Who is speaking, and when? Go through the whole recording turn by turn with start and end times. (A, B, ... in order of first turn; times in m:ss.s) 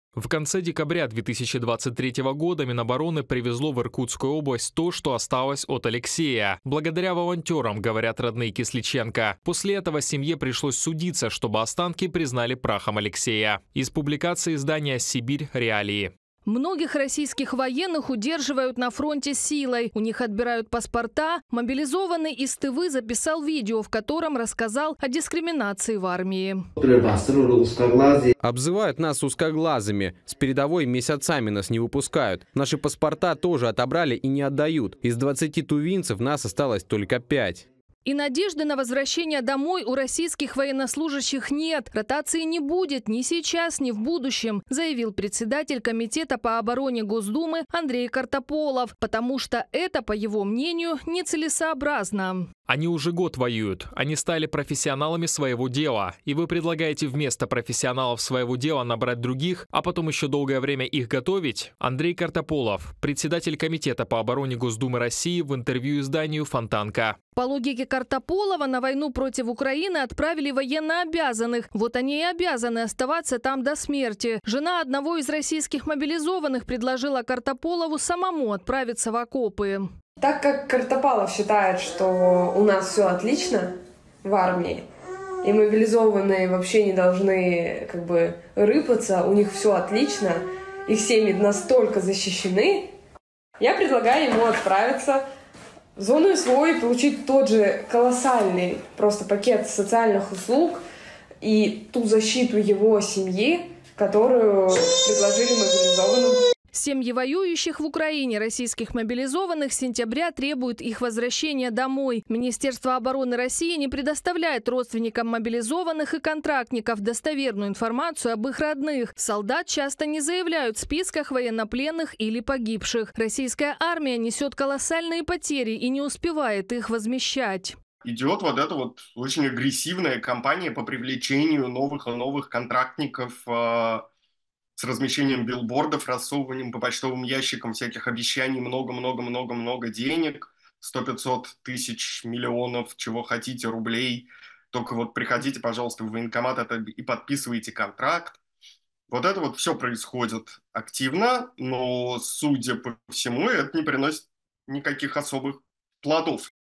0:00.2-0:16.1 A
0:16.4-0:26.6 B
0:28.4-0:37.7 C
0:38.0-0:52.5 B
0:52.7-1:07.2 A
1:07.4-1:19.9 B
1:20.2-1:23.7 D
1:24.2-1:24.8 D
1:25.4-1:32.9 D
1:33.6-1:35.2 D
1:36.0-1:40.8 D
1:41.4-1:46.4 D
1:46.7-2:07.8 B
2:08.0-2:14.0 E
2:14.8-2:28.4 E
2:29.1-2:36.5 E